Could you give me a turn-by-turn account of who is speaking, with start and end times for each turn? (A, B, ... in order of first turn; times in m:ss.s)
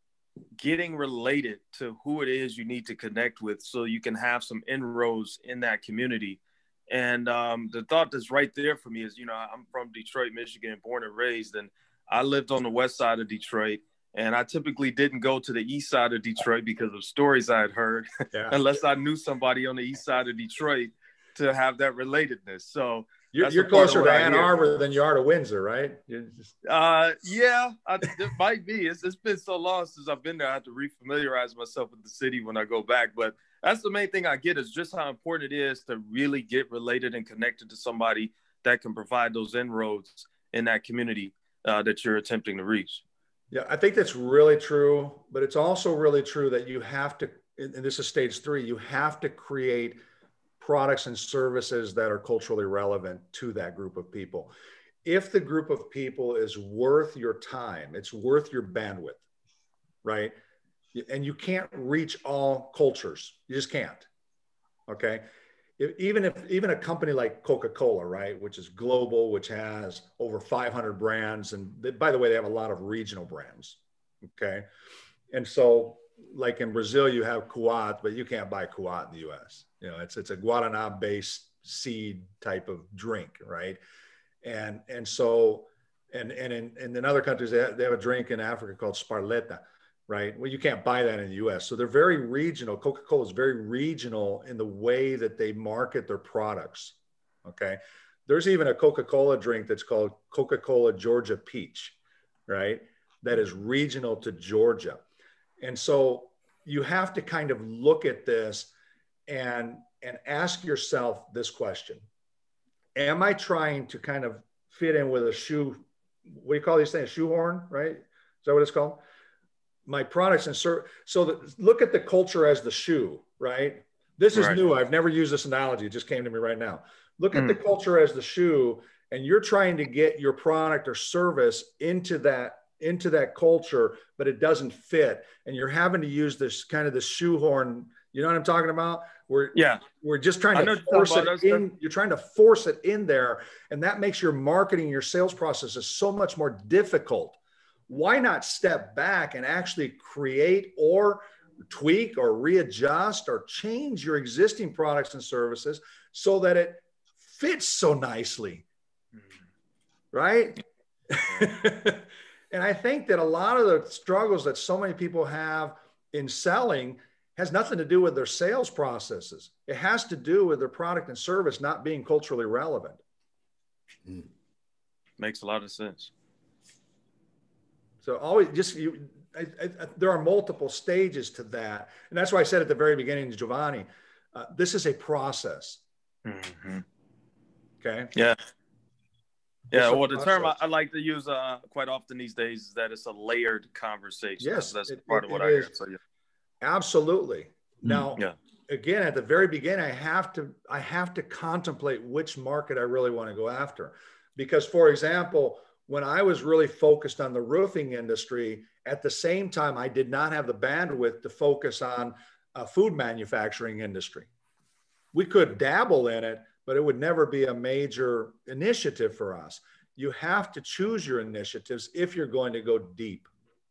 0:00.6-0:24.6 A
0:18.3-0:18.6 B
0:23.3-0:26.5 B
0:26.6-0:43.0 A
0:43.5-0:50.0 B
0:50.6-0:54.5 B
0:55.0-0:59.2 B
1:00.0-1:00.4 B
1:00.9-1:04.1 B
1:04.9-1:05.2 B
1:05.8-1:13.8 B
1:14.3-1:14.6 B
1:15.3-1:23.8 B
1:24.4-1:41.9 B
1:42.5-1:45.0 B
1:45.6-1:48.7 B
1:49.3-1:52.0 B
1:53.0-1:59.0 B
1:59.9-2:27.4 B
2:04.3-2:04.6 A
2:07.3-2:07.6 A
2:19.6-2:19.9 A
2:20.5-2:21.6 A
2:27.9-2:38.6 B
2:40.1-2:53.0 B
2:55.2-2:56.1 A
2:58.0-3:05.8 B
3:06.2-3:06.8 A
3:07.8-3:08.1 B
3:09.7-3:16.0 A
3:09.7-3:10.6 B
3:14.4-3:15.7 B
3:16.6-3:34.3 B
3:17.9-3:18.4 A
3:35.1-3:43.3 B